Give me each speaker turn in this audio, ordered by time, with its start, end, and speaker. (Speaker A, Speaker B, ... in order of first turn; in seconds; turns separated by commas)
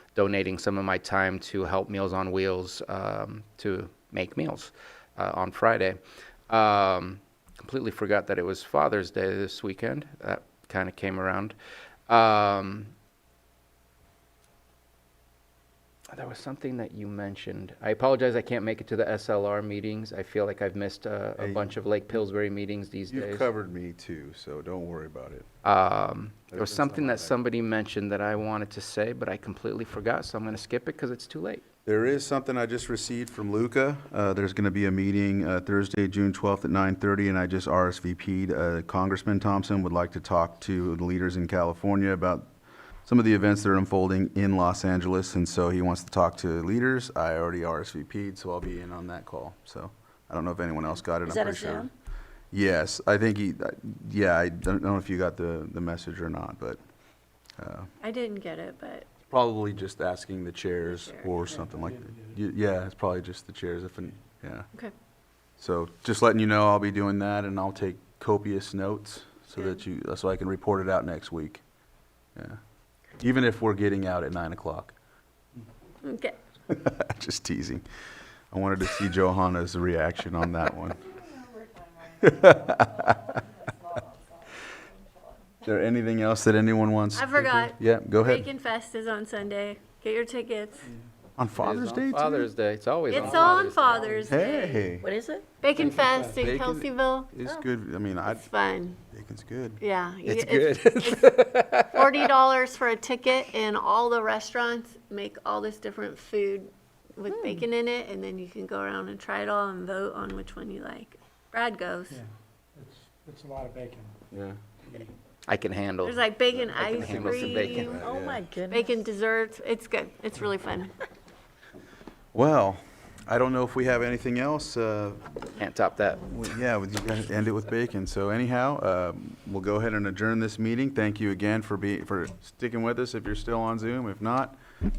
Speaker A: 0.1-11.5, Speaker A: 12.1-12.9, Speaker A: 16.1-23.5, Speaker B: 21.4-21.8, Speaker B: 23.1-25.4, Speaker A: 25.6-31.6, Speaker B: 26.5-27.3, Speaker B: 31.9-42.5, Speaker B: 43.0-51.9, Speaker C: 51.2-51.9, Speaker B: 52.5-56.8, Speaker B: 57.6-57.9, Speaker D: 58.0-59.1, Speaker B: 59.3-64.7, Speaker D: 60.8-61.5, Speaker B: 65.6-71.6, Speaker B: 73.2-74.9, Speaker D: 76.0-76.3, Speaker B: 76.7-77.8, Speaker B: 78.5-81.0, Speaker B: 82.2-83.1, Speaker B: 85.6-88.5, Speaker D: 87.1-90.8, Speaker B: 91.4-92.5, Speaker A: 91.5-94.3, Speaker D: 93.1-94.9, Speaker E: 93.1-94.3, Speaker B: 94.3-95.1, Speaker C: 95.0-95.4, Speaker D: 95.6-97.3, Speaker E: 95.8-96.2, Speaker B: 96.3-98.5, Speaker D: 98.2-99.0, Speaker B: 99.1-99.8, Speaker D: 99.8-101.2, Speaker A: 100.2-102.2, Speaker D: 101.9-112.2, Speaker C: 107.3-107.6, Speaker E: 112.8-114.1, Speaker B: 114.3-114.6, Speaker A: 115.5-118.0, Speaker D: 116.0-118.1, Speaker B: 116.5-118.5, Speaker C: 118.0-118.9, Speaker D: 118.7-120.9, Speaker B: 122.3-125.3, Speaker A: 125.6-126.3, Speaker B: 126.3-134.6